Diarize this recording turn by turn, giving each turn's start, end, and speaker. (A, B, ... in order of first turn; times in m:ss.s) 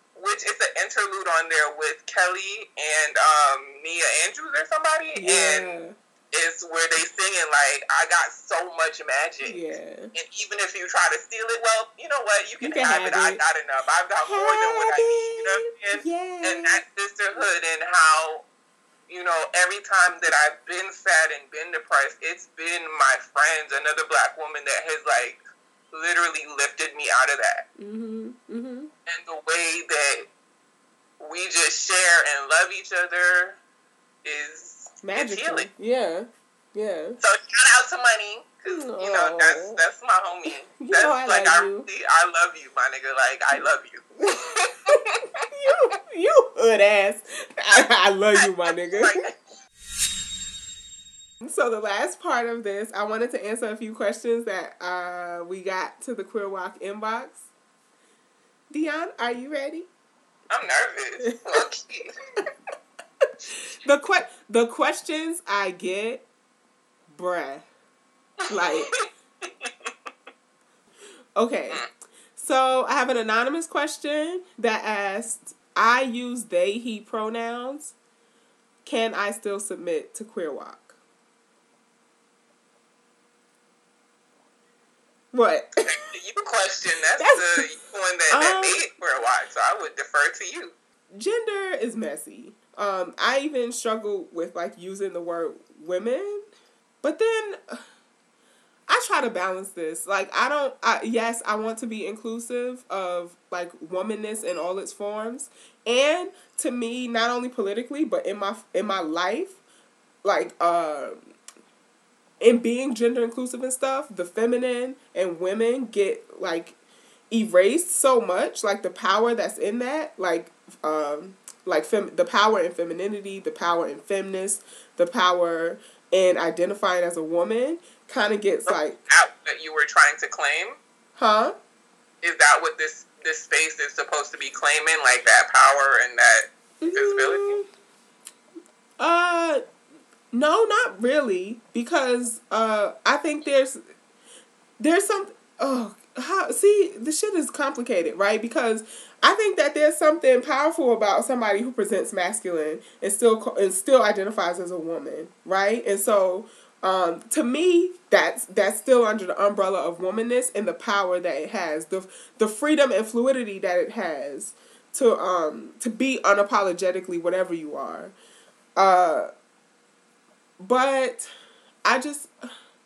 0:00.2-0:05.8 A
0:05.2-0:06.0 B
0:06.3-0:18.5 A
0:09.4-0:10.1 B
0:12.6-0:13.4 B
0:14.2-0:16.8 B
0:19.1-0:25.4 A
0:25.9-0:27.6 A
0:27.8-0:28.9 B
0:29.1-0:30.3 A
0:31.2-0:33.6 A
0:34.2-0:35.7 A
0:35.0-0:37.2 B
0:37.2-0:45.4 A
0:38.7-0:39.8 B
0:40.8-0:41.9 B
0:45.5-0:49.2 B
0:48.4-0:49.4 A
0:51.4-0:57.5 B
0:58.7-0:59.9 B
1:00.5-1:02.2 A
1:03.8-1:06.2 B
1:07.1-1:07.7 B
1:08.5-1:08.9 B
1:08.5-1:09.9 A
1:11.4-1:11.8 B
1:12.4-1:18.0 B
1:18.8-1:21.0 B
1:25.3-1:25.8 B
1:25.9-1:30.8 A
1:27.2-1:27.6 B
1:28.3-1:28.8 B
1:31.1-1:36.5 B
1:37.0-1:37.8 B
1:38.9-1:49.6 B
1:50.2-1:51.2 B
1:52.4-1:56.8 B
1:57.3-2:09.0 B
2:08.7-2:10.8 A
2:11.2-2:11.6 B
2:12.2-2:17.6 A
2:16.8-2:17.7 B
2:19.0-2:19.6 B
2:20.3-2:23.8 B
2:24.8-2:48.2 B
2:48.8-2:49.3 B
2:50.6-2:51.3 B
2:51.8-2:52.3 B